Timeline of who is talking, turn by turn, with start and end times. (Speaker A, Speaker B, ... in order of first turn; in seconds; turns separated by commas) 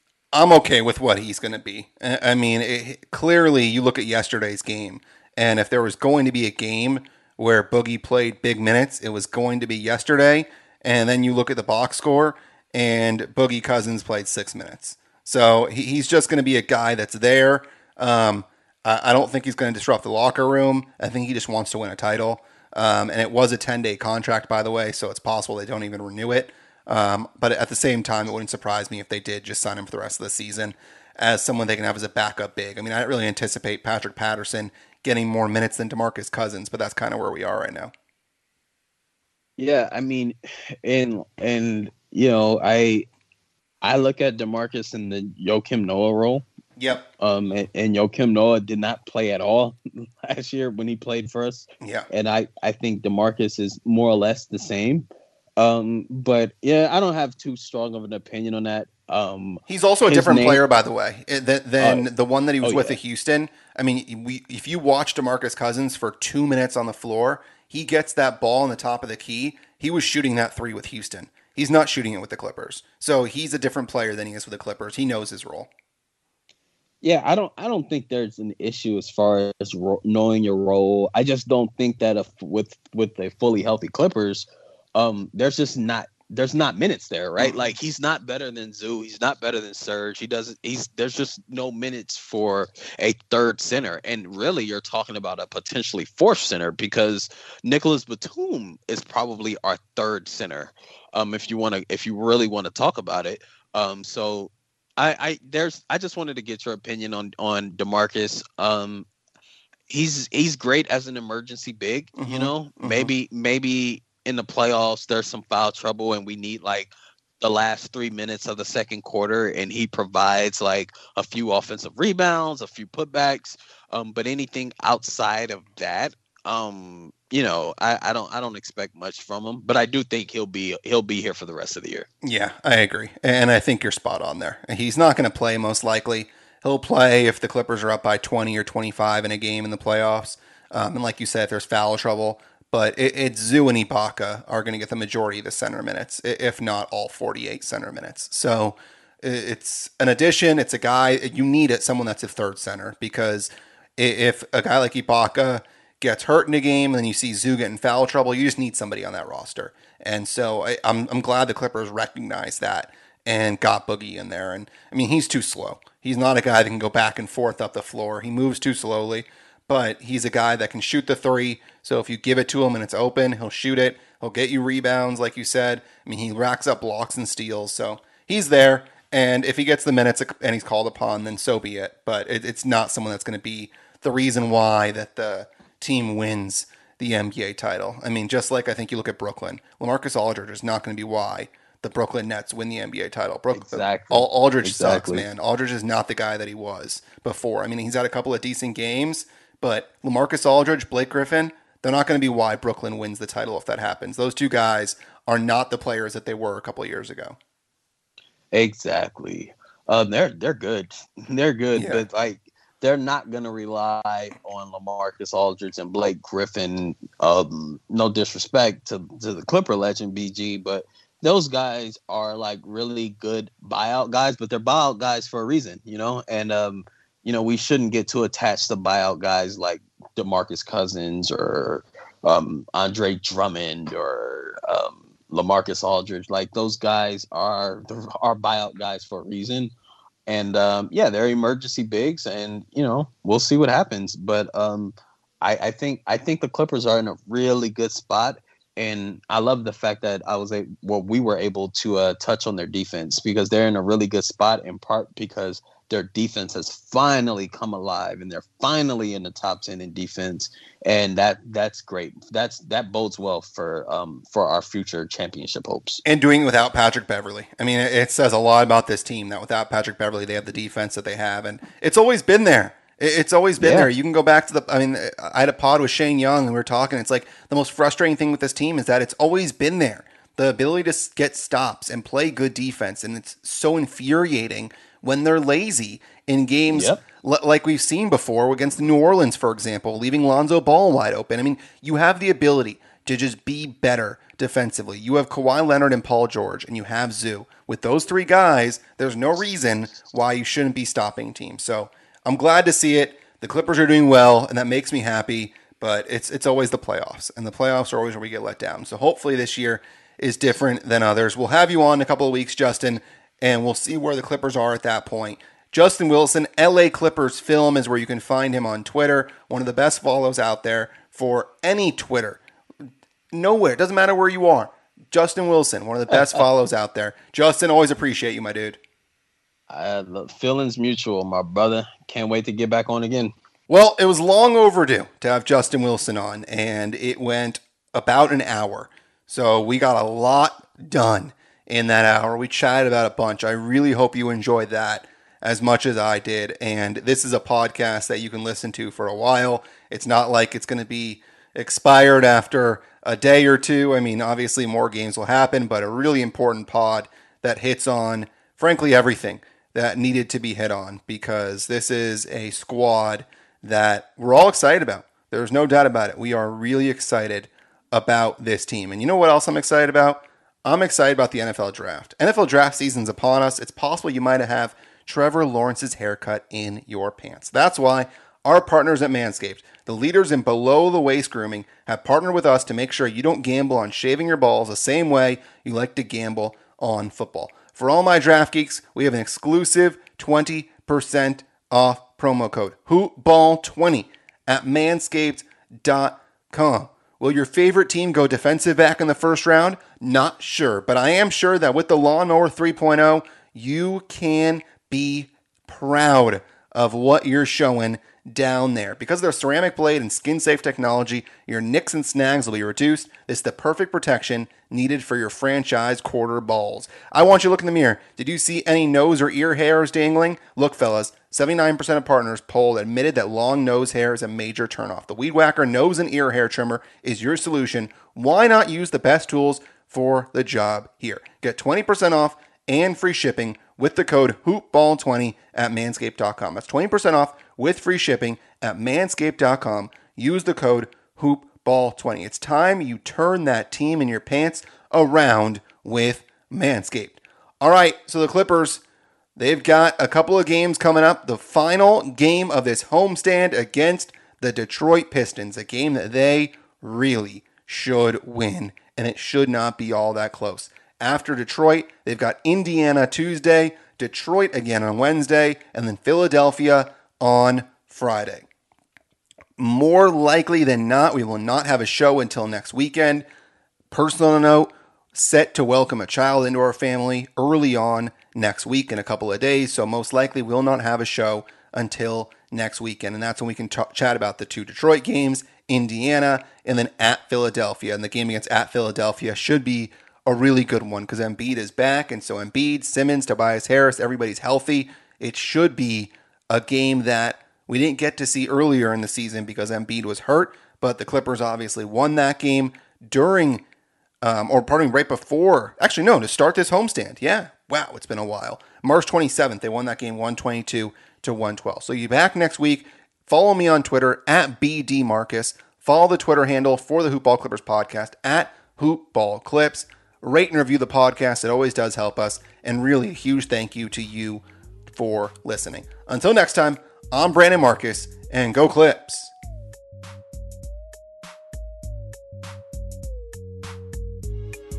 Speaker A: 0.3-37.9, Speaker B: 39.6-43.1, Speaker B: 43.8-46.4, Speaker A: 46.8-47.1, Speaker B: 47.2-55.1, Speaker A: 51.8-52.1, Speaker B: 55.6-60.6, Speaker A: 59.7-75.7, Speaker B: 61.8-62.1, Speaker B: 62.6-63.0, Speaker B: 77.0-109.1, Speaker A: 87.4-87.7, Speaker B: 109.9-132.1, Speaker A: 112.2-113.1, Speaker A: 132.2-207.4, Speaker B: 193.5-195.2, Speaker B: 208.5-239.7, Speaker A: 211.7-212.0, Speaker B: 240.3-266.0, Speaker A: 266.0-322.4, Speaker B: 273.6-273.9, Speaker B: 286.7-287.0, Speaker A: 323.3-328.8, Speaker B: 329.7-333.3, Speaker A: 333.7-448.8, Speaker A: 449.4-468.5, Speaker A: 469.6-473.2, Speaker A: 473.9-503.6, Speaker A: 504.2-529.3